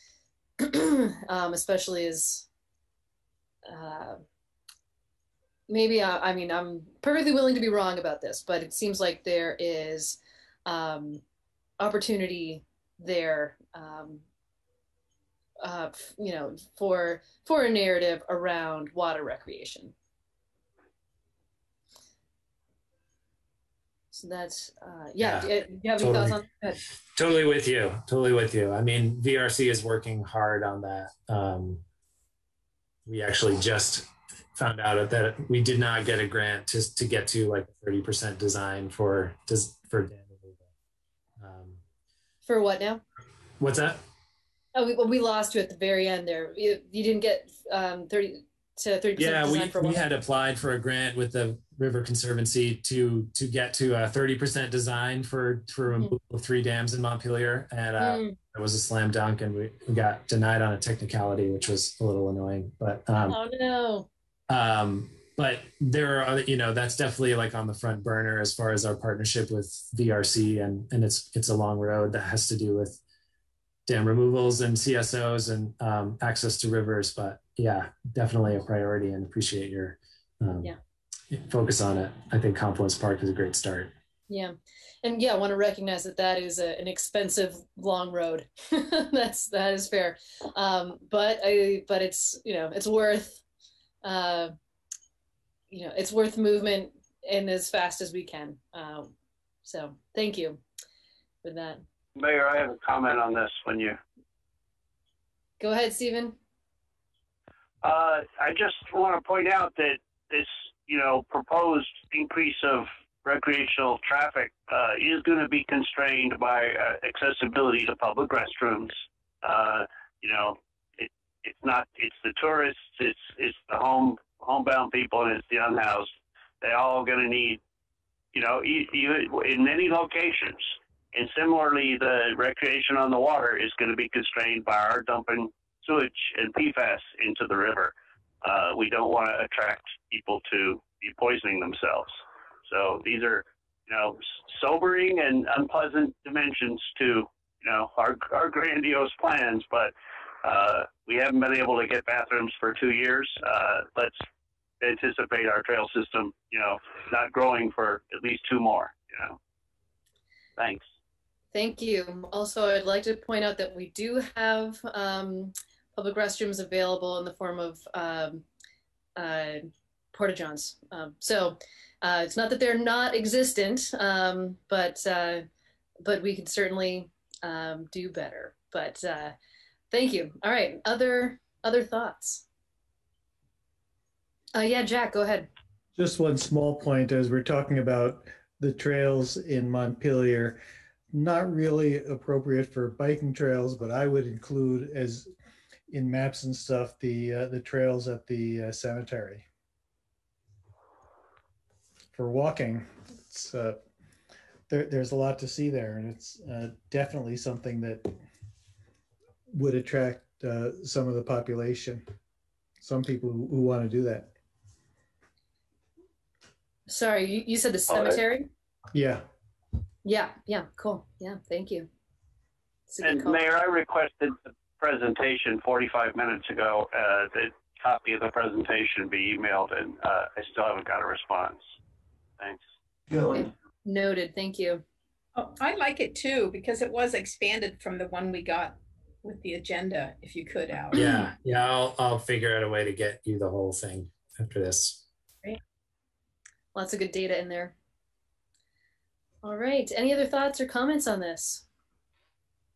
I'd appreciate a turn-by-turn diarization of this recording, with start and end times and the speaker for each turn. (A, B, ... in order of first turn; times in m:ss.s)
0:00.6-0:02.5 A
0:03.7-0:04.2 A
0:05.7-0:11.2 A
0:11.8-0:14.2 A
0:15.6-0:19.9 A
0:24.1-0:26.8 A
0:25.2-0:26.4 B
0:27.2-0:31.8 B
0:33.1-0:40.7 B
0:41.4-0:41.8 B
0:42.5-0:43.0 A
0:43.6-0:44.0 B
0:44.8-0:50.0 A
0:49.2-1:03.4 B
0:55.9-0:56.2 A
0:58.0-0:58.4 A
1:03.3-1:04.1 A
1:04.5-1:13.0 B
1:13.9-1:20.7 B
1:21.3-1:23.9 B
1:24.3-1:33.4 A
1:34.0-1:34.5 A
1:35.7-1:39.1 A
1:39.6-1:40.6 A
1:41.4-1:41.8 A
1:42.2-1:44.0 C
1:45.6-1:46.4 A
1:47.8-2:06.1 C
2:06.6-2:07.6 C
2:08.3-2:29.9 C
2:30.4-2:34.2 C
2:34.8-2:39.4 C
2:40.6-2:40.9 C
2:41.5-2:48.4 A
2:49.2-2:55.5 A
2:56.0-2:59.4 A
2:59.9-3:02.4 A
3:04.5-3:05.5 A
3:06.0-3:10.6 D
3:11.1-3:15.3 D
3:15.9-3:19.4 D
3:22.1-3:23.8 D
3:24.7-3:28.2 D
3:29.5-3:32.1 D
3:32.8-3:34.3 D
3:36.9-3:38.5 A
3:38.9-3:39.2 D
3:40.0-3:41.9 A
3:42.9-3:43.4 A
3:43.0-3:51.7 C
3:53.3-3:54.8 A
3:55.4-4:01.0 E
4:01.0-4:05.0 B
4:06.8-4:07.8 A
4:09.4-4:11.6 A